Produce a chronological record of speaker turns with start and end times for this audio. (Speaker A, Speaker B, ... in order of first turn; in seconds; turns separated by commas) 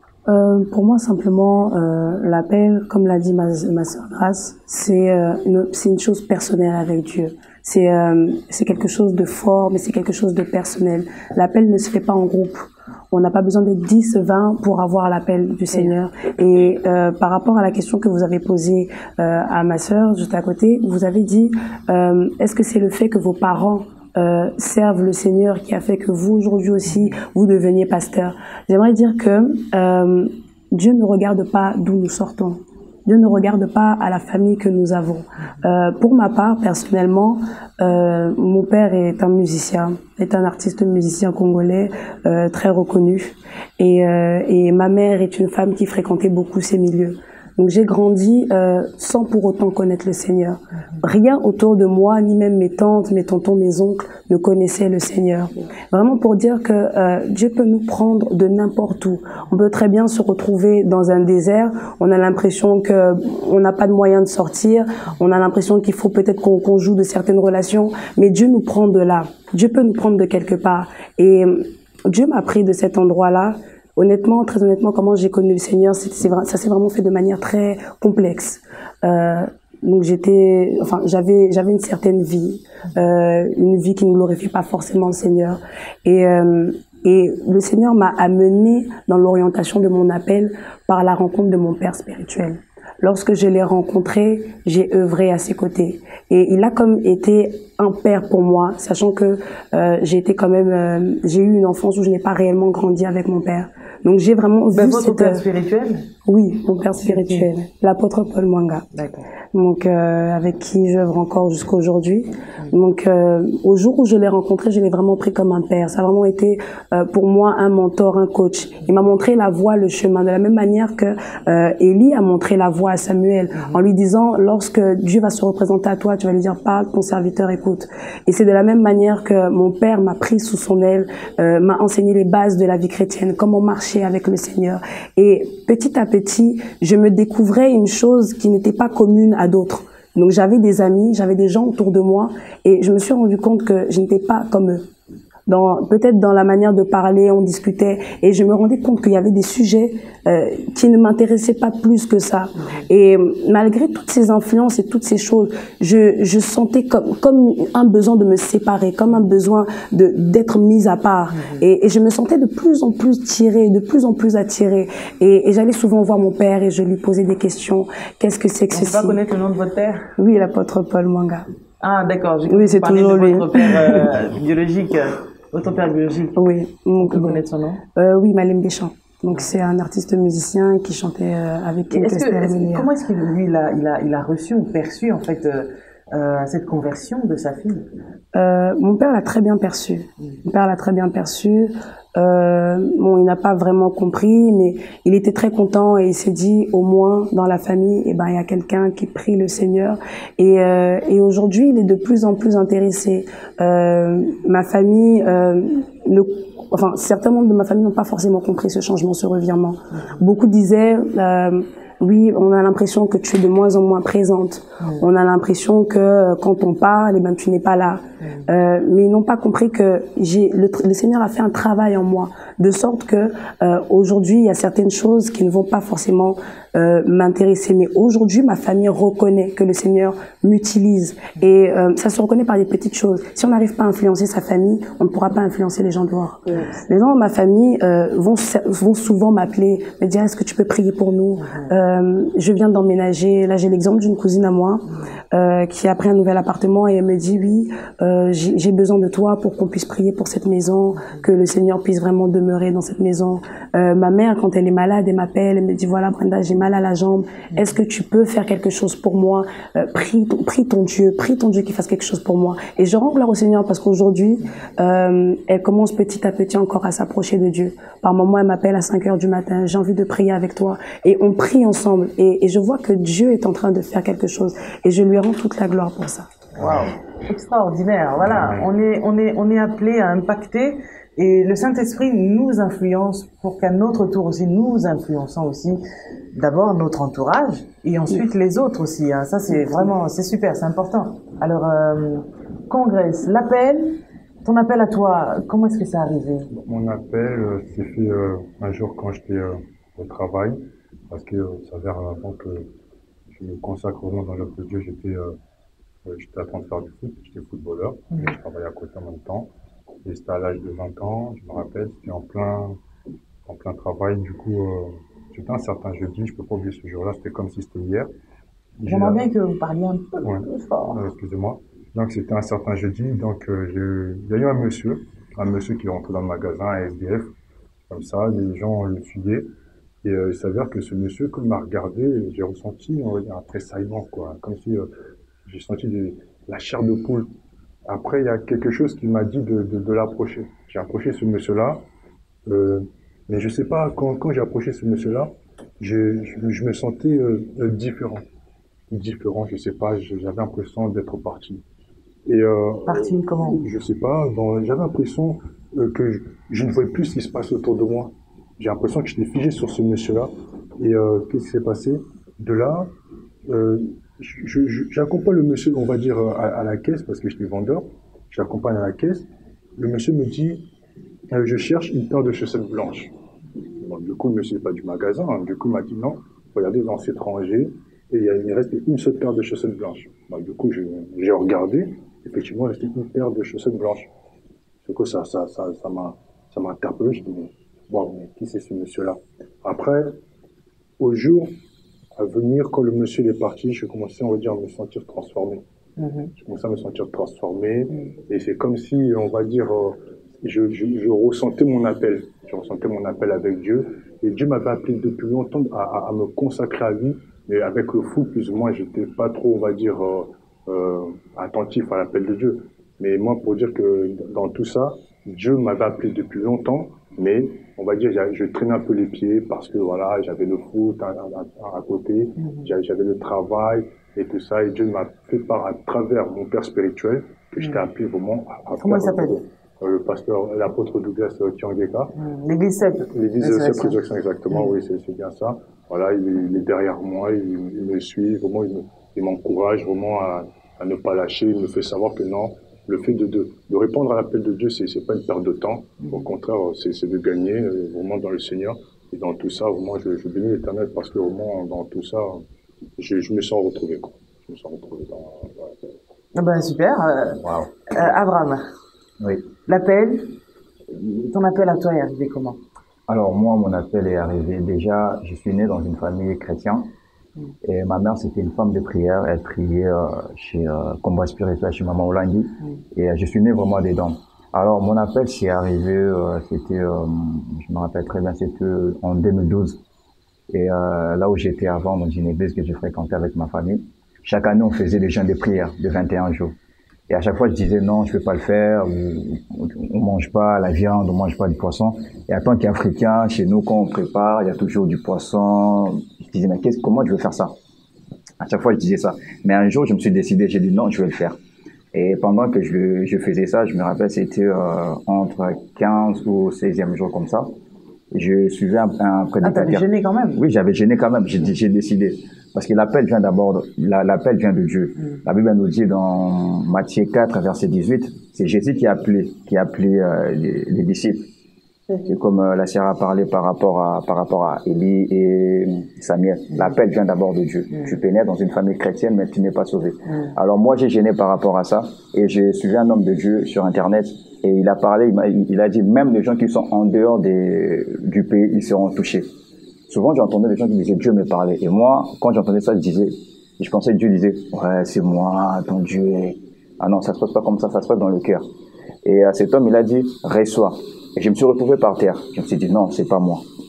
Speaker A: 0.3-105.4, Speaker B: 104.7-106.1, Speaker A: 106.2-108.8, Speaker B: 107.0-107.5, Speaker B: 108.9-109.3, Speaker A: 109.5-144.8, Speaker A: 145.5-169.2, Speaker B: 168.7-170.1, Speaker A: 170.2-171.5, Speaker B: 171.8-176.4, Speaker A: 172.5-174.1, Speaker A: 176.4-177.4, Speaker B: 177.0-177.8, Speaker A: 177.9-182.9, Speaker B: 181.9-187.9, Speaker A: 188.3-276.3, Speaker B: 276.6-285.8, Speaker C: 276.6-276.9, Speaker C: 278.3-278.7, Speaker B: 286.3-296.5, Speaker C: 296.5-300.6, Speaker C: 301.1-302.7, Speaker C: 303.3-305.4, Speaker C: 306.1-309.5, Speaker C: 310.1-312.8, Speaker C: 313.5-318.1, Speaker C: 318.8-319.3, Speaker B: 318.9-321.0, Speaker C: 320.2-327.3, Speaker C: 327.9-329.5, Speaker C: 330.0-334.9, Speaker C: 335.4-337.3, Speaker C: 337.9-341.8, Speaker C: 342.5-348.2, Speaker C: 348.9-351.6, Speaker C: 352.3-362.9, Speaker B: 352.9-353.6, Speaker C: 363.5-369.3, Speaker C: 369.8-370.6, Speaker C: 371.3-373.1, Speaker C: 373.8-384.1, Speaker C: 384.8-390.1, Speaker C: 391.0-391.5, Speaker C: 392.2-395.6, Speaker B: 396.0-396.3, Speaker C: 396.4-432.1, Speaker B: 422.4-422.6, Speaker B: 428.8-429.4, Speaker B: 432.2-434.0, Speaker C: 433.1-452.4, Speaker C: 453.0-455.8, Speaker B: 456.4-458.6, Speaker B: 459.7-460.3, Speaker B: 460.9-462.6, Speaker D: 463.1-466.9, Speaker D: 467.6-479.8, Speaker D: 480.5-486.6, Speaker D: 487.1-497.5, Speaker D: 498.4-501.4, Speaker D: 501.9-507.5, Speaker D: 508.1-521.3, Speaker B: 509.4-510.4, Speaker D: 522.0-539.3, Speaker D: 539.9-548.5, Speaker D: 549.0-553.5